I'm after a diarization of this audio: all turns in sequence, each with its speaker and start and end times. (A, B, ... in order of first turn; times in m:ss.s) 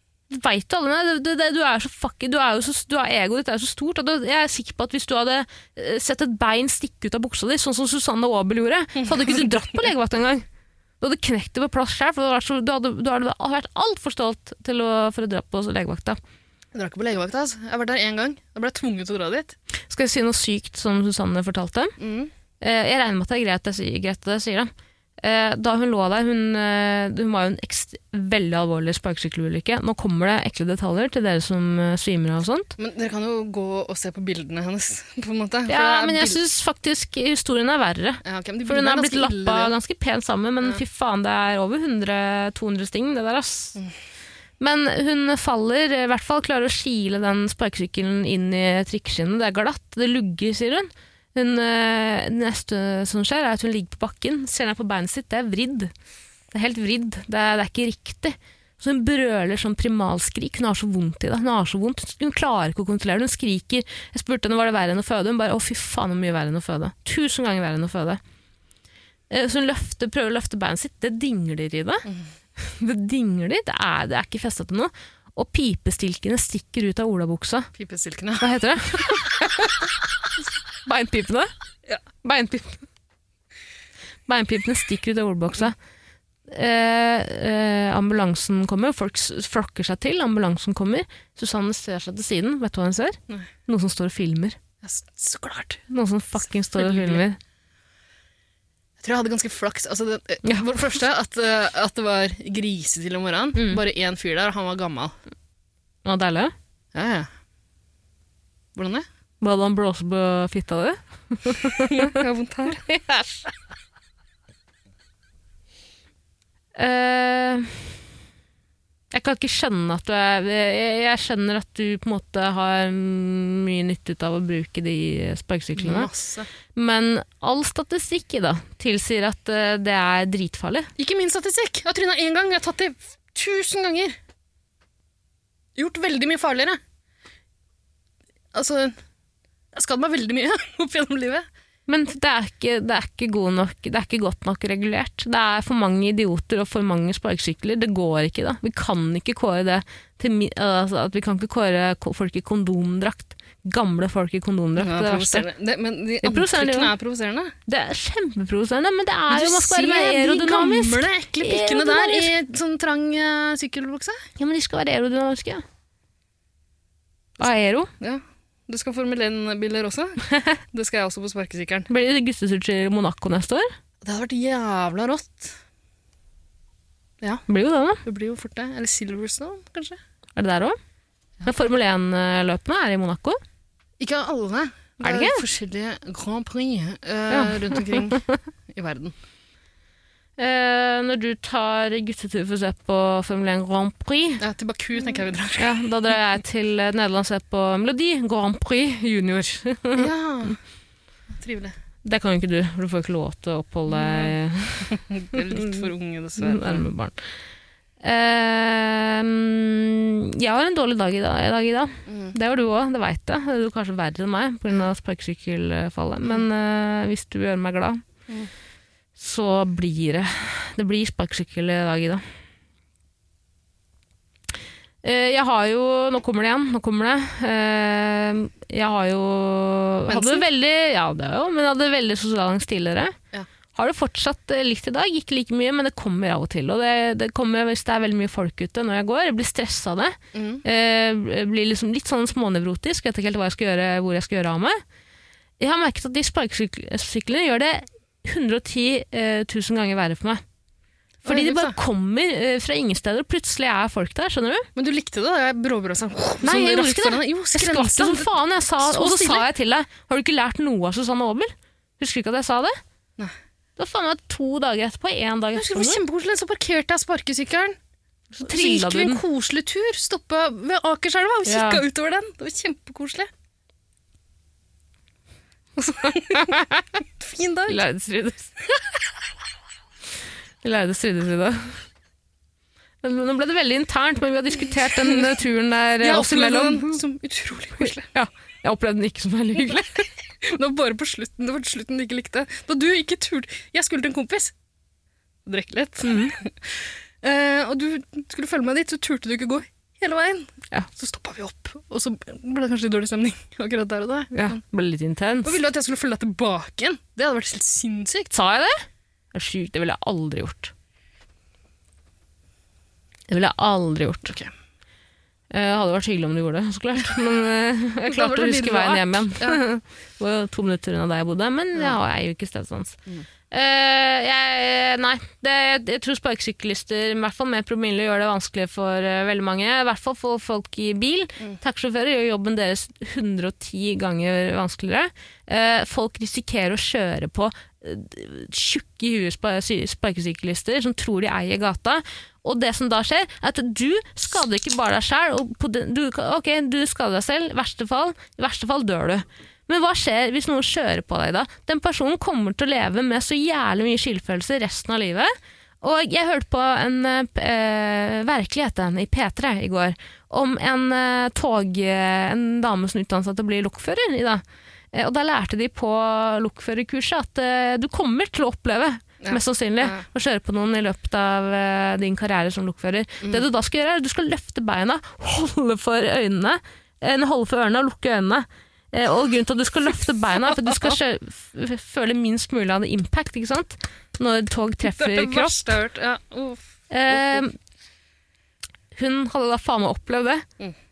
0:00.3-0:10.5 A
0:09.0-0:09.5 B
0:11.0-0:16.2 A
0:16.7-0:19.6 B
0:19.9-0:22.0 A
0:22.0-0:22.3 B
0:22.6-0:32.8 A
0:32.8-0:36.4 B
0:35.7-0:43.8 A
0:38.2-0:39.8 B
0:44.6-0:55.9 A
0:56.5-1:08.2 A
1:09.3-1:17.7 A
1:17.8-1:18.5 B
1:18.4-1:19.8 A
1:20.8-1:21.5 A
1:22.2-1:22.8 A
1:24.3-1:25.8 A
1:26.5-1:34.6 A
1:34.8-1:35.8 B
1:35.9-1:37.4 A
1:36.8-1:37.2 B
1:39.0-1:45.2 B
1:43.6-1:43.8 A
1:46.0-1:46.5 A
1:46.9-1:47.3 B
1:48.8-1:49.1 B
1:49.4-1:52.2 A
1:51.8-1:52.8 B
1:52.8-1:53.5 A
1:56.8-1:57.9 A
1:59.1-2:06.1 A
2:05.8-2:06.5 B
2:06.7-2:10.9 A
2:11.0-2:14.2 B
2:15.8-2:16.8 B
2:18.5-2:19.0 B
2:19.7-2:21.5 B
2:21.9-2:35.5 A
2:34.8-2:37.6 B
2:36.2-2:36.9 A
2:37.7-2:42.3 A
2:39.3-2:44.3 B
2:44.4-2:45.6 A
2:47.4-2:47.9 A
2:48.0-2:51.9 B
2:50.3-2:50.6 A
2:51.9-2:53.7 A
2:54.0-2:55.6 B
2:57.5-2:58.0 A
2:58.1-3:00.0 B
3:00.4-3:00.8 A
3:01.4-3:03.4 A
3:04.0-3:09.2 B
3:05.0-3:05.4 A
3:07.3-3:08.4 A
3:10.4-3:14.4 A
3:14.4-3:15.8 B
3:15.6-3:20.1 A
3:20.0-3:20.6 B
3:21.3-3:21.8 B
3:22.0-3:25.9 A
3:23.9-3:24.3 B
3:24.9-3:26.8 B
3:26.4-3:27.2 A
3:28.0-3:38.0 A
3:32.1-3:32.3 B
3:39.2-3:42.2 A
3:45.0-3:53.2 A
3:50.1-3:50.5 B
3:53.8-4:04.8 A
4:00.3-4:00.6 B
4:05.6-4:10.4 A
4:11.2-4:11.8 B
4:11.3-4:14.7 A
4:14.8-4:19.5 B
4:16.4-4:22.8 A
4:23.8-4:26.0 A
4:25.6-4:27.8 B
4:28.3-4:29.2 A
4:28.4-4:33.3 B
4:31.5-4:31.8 A
4:35.8-4:36.6 B
4:36.3-4:36.8 A
4:37.2-4:37.8 B
4:37.7-4:38.5 A
4:40.6-4:41.8 A
4:43.0-4:47.0 A
4:45.0-4:45.3 B
4:46.0-4:48.1 B
4:47.8-4:50.1 A
4:50.4-4:54.5 B
4:55.5-5:04.6 B
4:56.0-4:56.4 A
5:04.3-5:05.6 A
5:05.4-5:08.3 B
5:08.3-5:10.7 A
5:13.3-5:14.4 A
5:15.5-5:23.0 A
5:18.1-5:19.6 B
5:23.5-6:25.8 A
6:09.2-6:10.0 B
6:24.8-6:27.4 B
6:26.9-6:27.6 A
6:28.9-6:30.4 A